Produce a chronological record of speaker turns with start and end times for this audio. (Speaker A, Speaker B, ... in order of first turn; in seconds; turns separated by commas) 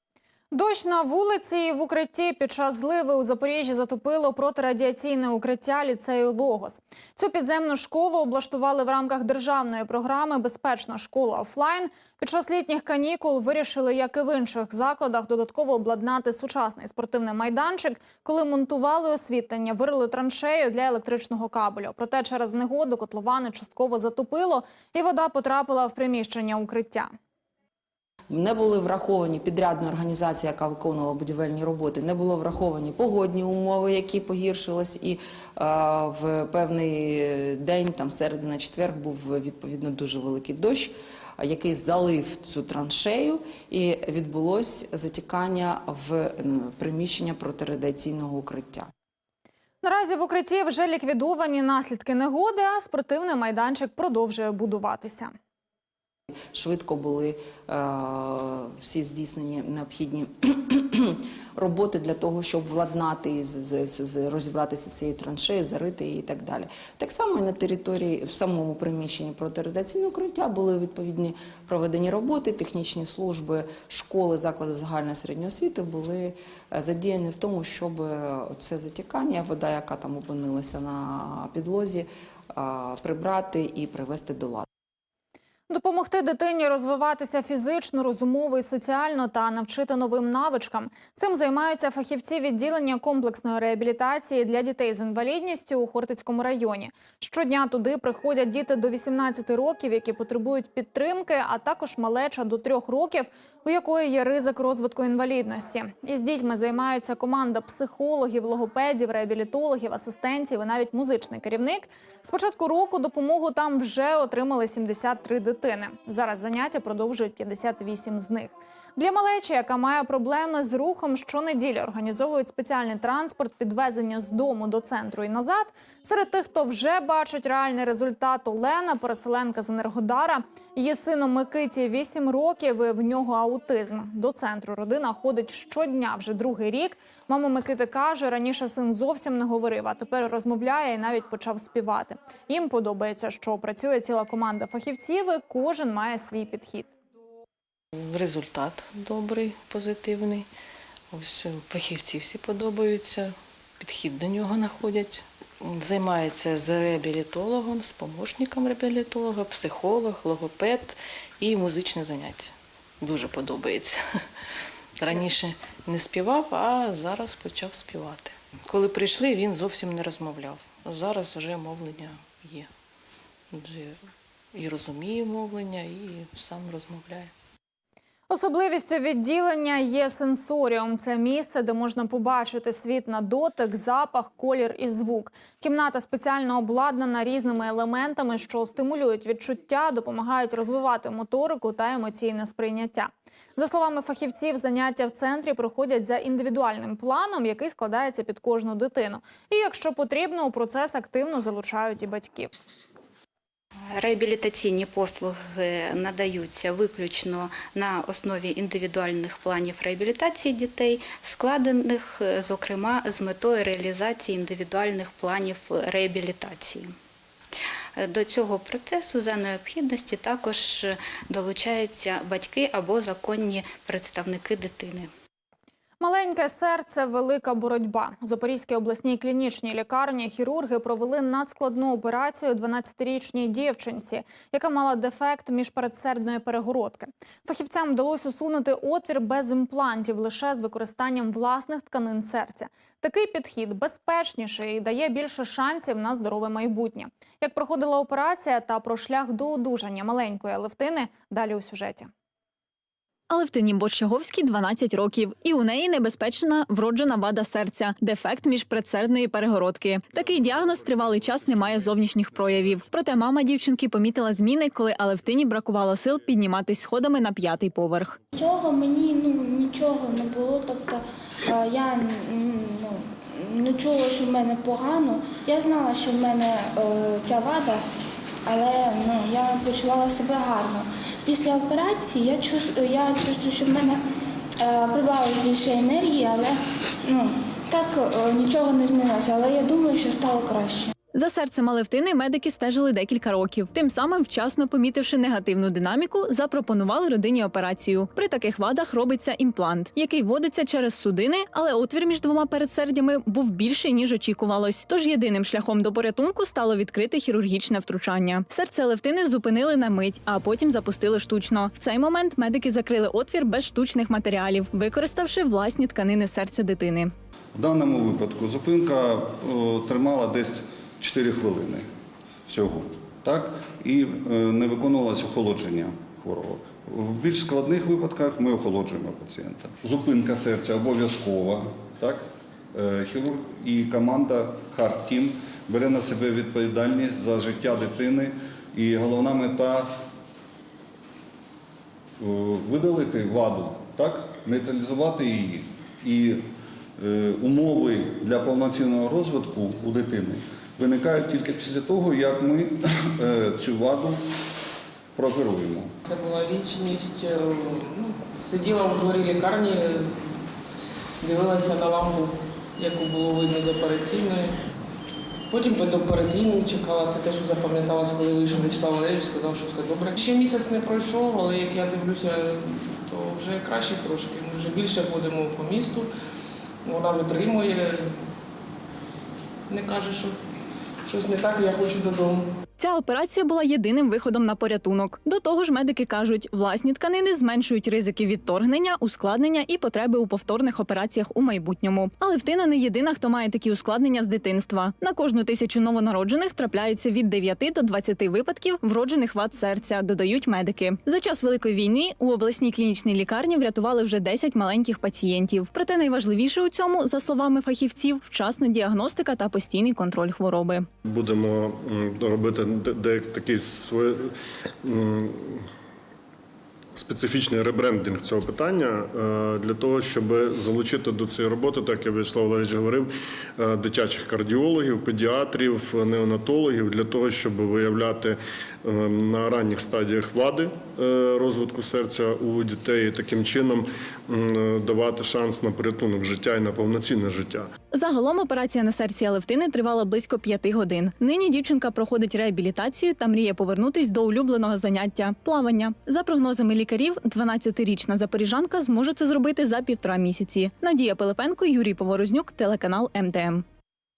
Speaker A: 0.5-27.1, Speaker B: 28.3-48.9, Speaker A: 49.8-55.3, Speaker B: 56.5-84.7, Speaker A: 85.7-146.9, Speaker C: 147.9-150.5, Speaker C: 151.1-164.0, Speaker C: 165.0-172.7, Speaker C: 173.5-174.0, Speaker C: 174.5-177.3, Speaker A: 178.3-202.6, Speaker D: 203.9-216.9, Speaker D: 217.9-225.1, Speaker A: 226.0-252.1, Speaker E: 253.3-268.2, Speaker F: 268.3-277.8, Speaker F: 278.4-284.0, Speaker F: 284.6-290.9, Speaker E: 291.1-317.1, Speaker G: 317.5-321.8, Speaker G: 322.5-340.0, Speaker G: 342.2-354.3, Speaker G: 355.1-355.9, Speaker H: 356.0-360.3, Speaker H: 361.2-364.6, Speaker H: 365.5-376.1, Speaker H: 376.8-378.2, Speaker H: 379.7-380.4, Speaker H: 381.0-382.5, Speaker E: 382.8-410.9, Speaker I: 411.0-415.7, Speaker I: 416.9-437.7, Speaker E: 437.9-453.6